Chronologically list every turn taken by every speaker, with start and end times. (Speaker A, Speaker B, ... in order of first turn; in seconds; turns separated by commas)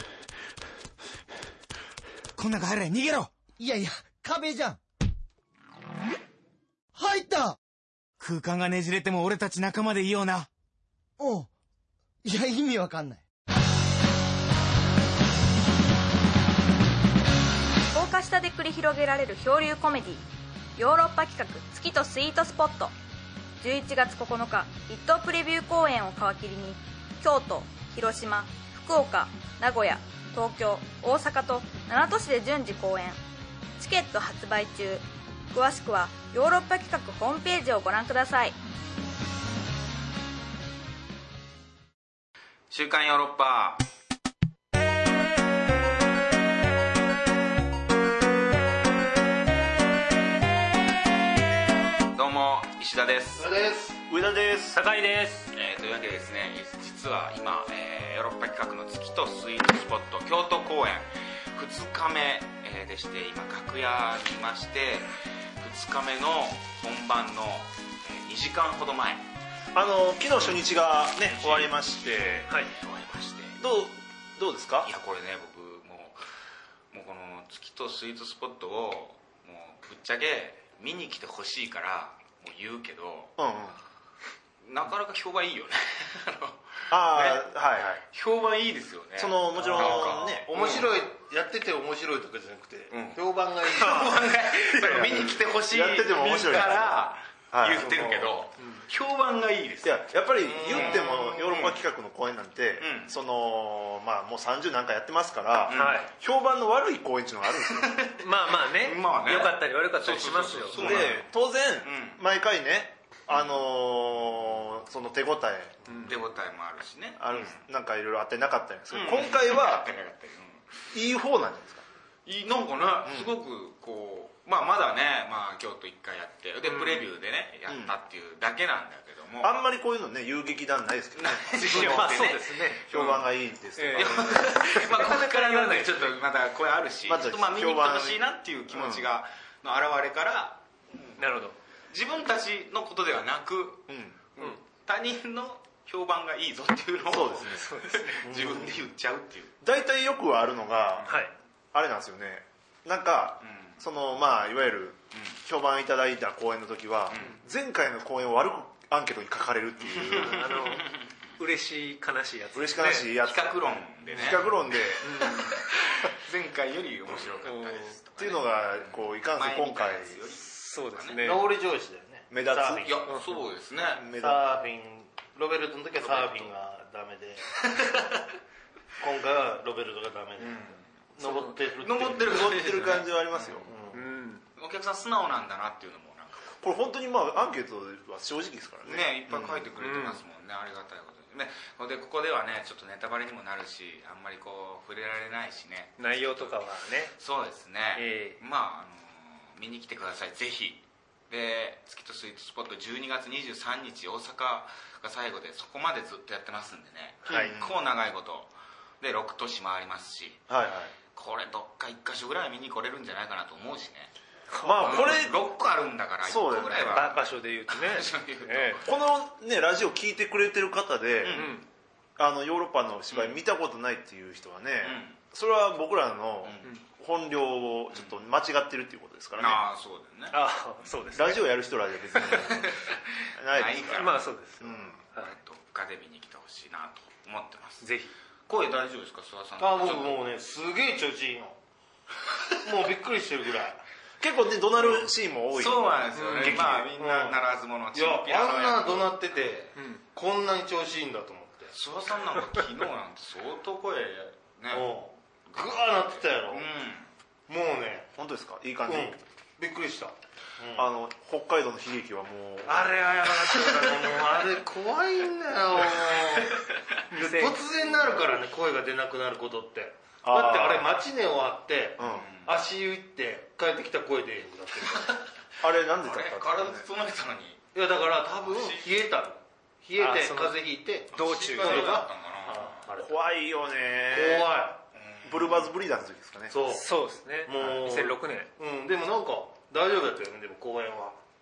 Speaker A: 2.4-2.8, Speaker B: 2.5-3.3, Speaker A: 3.6-4.8, Speaker A: 7.0-7.6, Speaker B: 8.2-10.5, Speaker A: 11.2-11.5, Speaker A: 12.2-13.2, Speaker C: 17.9-20.2, Speaker C: 20.8-22.9, Speaker C: 23.6-33.2, Speaker C: 33.8-38.5, Speaker D: 42.7-43.8, Speaker D: 52.1-53.5, Speaker E: 53.3-54.0, Speaker F: 54.1-54.8, Speaker G: 54.7-55.5, Speaker D: 55.5-69.3, Speaker F: 69.7-72.5, Speaker D: 71.3-73.6, Speaker G: 72.5-72.7, Speaker F: 73.6-74.9, Speaker D: 74.8-76.2, Speaker D: 76.9-83.3, Speaker F: 83.4-83.8, Speaker D: 84.6-87.5, Speaker F: 86.9-88.0, Speaker D: 88.1-90.9, Speaker F: 89.2-90.6, Speaker E: 89.6-94.3, Speaker D: 92.9-100.1, Speaker F: 94.7-98.4, Speaker G: 98.6-98.8, Speaker F: 99.8-108.0, Speaker E: 100.5-101.4, Speaker D: 100.7-101.8, Speaker D: 102.8-103.2, Speaker D: 105.7-106.1, Speaker G: 105.7-106.1, Speaker D: 107.7-112.2, Speaker G: 108.2-111.1, Speaker F: 110.7-116.1, Speaker D: 113.3-113.6, Speaker G: 115.9-116.2, Speaker D: 116.0-117.6, Speaker F: 117.2-119.9, Speaker D: 118.9-120.7, Speaker F: 120.9-121.8, Speaker D: 122.2-129.6, Speaker F: 123.0-123.3, Speaker G: 126.6-127.0, Speaker F: 127.7-127.9, Speaker F: 129.4-132.1, Speaker D: 131.2-133.3, Speaker G: 131.7-132.8, Speaker F: 132.9-134.8, Speaker G: 133.8-136.2, Speaker D: 133.9-149.5, Speaker F: 137.1-139.1, Speaker G: 141.2-141.6, Speaker F: 143.9-144.2, Speaker F: 147.1-147.7, Speaker G: 147.5-148.3, Speaker E: 148.2-148.9, Speaker F: 149.6-160.5, Speaker G: 151.1-151.3, Speaker D: 153.4-153.8, Speaker D: 155.1-155.4, Speaker D: 157.1-157.4, Speaker D: 159.9-161.0, Speaker G: 160.2-163.2, Speaker F: 162.5-163.6, Speaker D: 163.2-171.4, Speaker G: 164.1-165.7, Speaker F: 164.1-165.2, Speaker G: 167.4-168.0, Speaker F: 168.2-170.3, Speaker G: 170.4-171.5, Speaker E: 171.2-173.1, Speaker F: 172.3-172.9, Speaker D: 172.8-174.1, Speaker G: 173.1-173.4, Speaker F: 173.9-174.4, Speaker E: 174.2-178.0, Speaker D: 176.0-176.5, Speaker E: 179.0-182.9, Speaker D: 180.4-180.9, Speaker G: 181.2-181.6, Speaker D: 181.8-183.7, Speaker F: 182.2-183.7, Speaker E: 183.7-184.1, Speaker G: 183.9-184.4, Speaker D: 184.6-186.8, Speaker F: 186.6-189.7, Speaker D: 188.8-210.4, Speaker G: 189.8-190.2, Speaker G: 196.0-197.2, Speaker G: 197.9-198.4, Speaker F: 207.2-207.8, Speaker F: 210.5-210.9, Speaker D: 211.1-214.1, Speaker G: 214.5-215.3, Speaker F: 214.6-215.4, Speaker D: 214.8-218.9, Speaker F: 216.2-217.2, Speaker G: 216.9-218.8, Speaker F: 218.8-221.6, Speaker D: 221.2-221.6, Speaker G: 221.3-221.7, Speaker F: 222.2-229.6, Speaker D: 223.1-223.4, Speaker D: 224.8-225.2, Speaker D: 226.4-226.7, Speaker D: 227.9-228.2, Speaker D: 229.4-230.4, Speaker G: 230.3-231.5, Speaker F: 231.1-232.8, Speaker G: 232.1-232.7, Speaker F: 233.4-235.0, Speaker D: 233.5-234.3, Speaker G: 233.9-235.4, Speaker D: 235.1-237.9, Speaker G: 237.8-238.1, Speaker D: 238.5-240.2, Speaker E: 239.6-241.6, Speaker E: 242.6-243.8, Speaker F: 244.2-246.9, Speaker D: 245.5-249.5, Speaker G: 246.2-246.7, Speaker E: 247.0-251.7, Speaker G: 249.8-250.0, Speaker D: 251.7-257.1, Speaker E: 254.7-256.7, Speaker E: 257.5-258.1, Speaker F: 258.2-259.2, Speaker E: 258.9-260.9, Speaker F: 260.8-263.1, Speaker G: 262.7-263.6, Speaker E: 262.8-266.6, Speaker G: 267.1-267.6, Speaker E: 267.1-275.2, Speaker F: 270.2-270.9, Speaker F: 272.0-272.3, Speaker D: 272.0-272.6, Speaker F: 275.6-276.9, Speaker D: 276.0-277.7, Speaker E: 277.7-283.1, Speaker D: 278.4-279.1, Speaker G: 280.0-282.0, Speaker D: 281.1-282.9, Speaker F: 283.0-284.6, Speaker E: 284.1-284.8, Speaker D: 284.9-285.8, Speaker F: 285.2-286.6, Speaker E: 286.5-286.9, Speaker G: 286.7-288.5, Speaker E: 287.5-291.2